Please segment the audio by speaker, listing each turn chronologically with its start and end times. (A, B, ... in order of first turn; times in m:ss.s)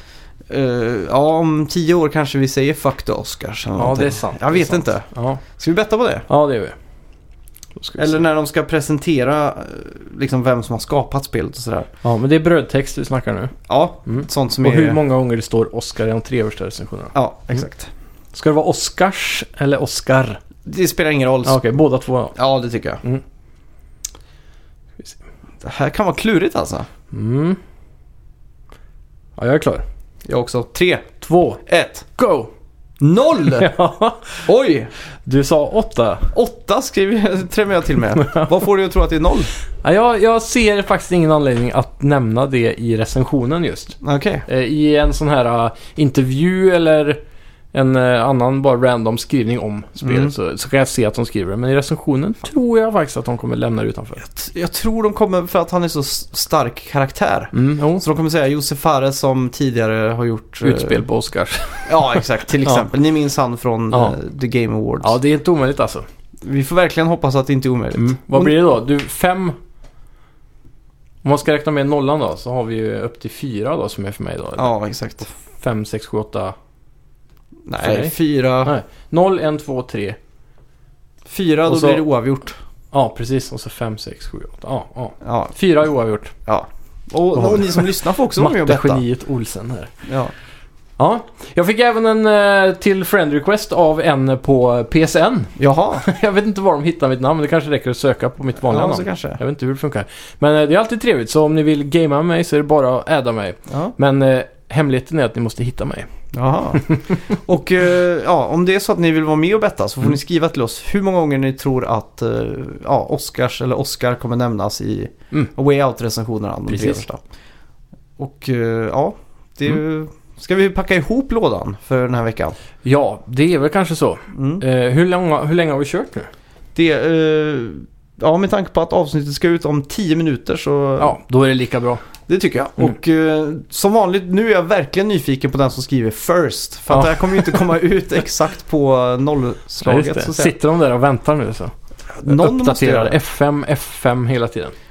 0:00.5-0:06.3 A
0:03.8-0:05.4 B
0:06.3-0:06.8 B
0:07.8-0:08.2 B
0:08.0-0:11.9 A
0:12.0-0:13.6 B
0:13.7-0:15.0 A
0:14.1-0:17.1 B
0:17.1-0:17.9 A
0:18.3-0:20.4 B
0:20.6-0:21.6 A
0:21.4-0:22.4 B
0:22.4-0:23.0 A
0:25.6-0:26.9 A
0:27.1-0:27.6 B
0:29.4-0:29.8 B
0:30.3-0:31.1 A
0:31.2-0:31.6 B
0:31.7-0:32.1 A
0:32.2-0:32.5 B
0:33.0-0:33.7 A
0:33.5-0:34.5 B
0:34.4-0:34.9 A
0:35.2-0:36.3 B
0:36.3-0:39.5 A
0:38.2-0:38.5 B
0:39.8-0:47.2 B
0:44.0-0:44.5 A
0:47.7-0:54.2 B
0:50.0-0:50.3 A
0:54.2-1:01.0 A
0:57.5-0:58.0 B
1:00.6-1:02.8 B
1:01.9-1:05.2 A
1:05.0-1:06.1 B
1:06.4-1:08.7 A
1:08.0-1:09.6 B
1:11.2-1:14.7 B
1:14.6-1:15.3 A
1:15.5-1:16.6 B
1:17.7-1:18.8 A
1:17.8-1:20.2 B
1:21.3-1:22.6 A
1:21.7-1:22.0 B
1:22.9-1:26.3 B
1:25.2-1:25.6 A
1:26.5-1:29.0 A
1:27.4-1:29.9 B
1:30.1-1:30.3 A
1:31.0-1:46.1 B
1:35.6-1:36.1 A
1:38.6-1:39.4 A
1:43.7-1:43.9 A
1:46.3-1:57.2 A
1:46.8-1:47.2 B
1:56.7-1:57.0 B
1:58.2-2:02.6 A
2:02.8-2:06.3 B
2:04.3-2:04.6 A
2:06.8-2:11.2 A
2:11.0-2:12.0 B
2:12.3-2:20.6 A
2:16.9-2:17.6 B
2:19.8-2:21.7 B
2:22.2-2:23.2 A
2:22.2-2:24.7 B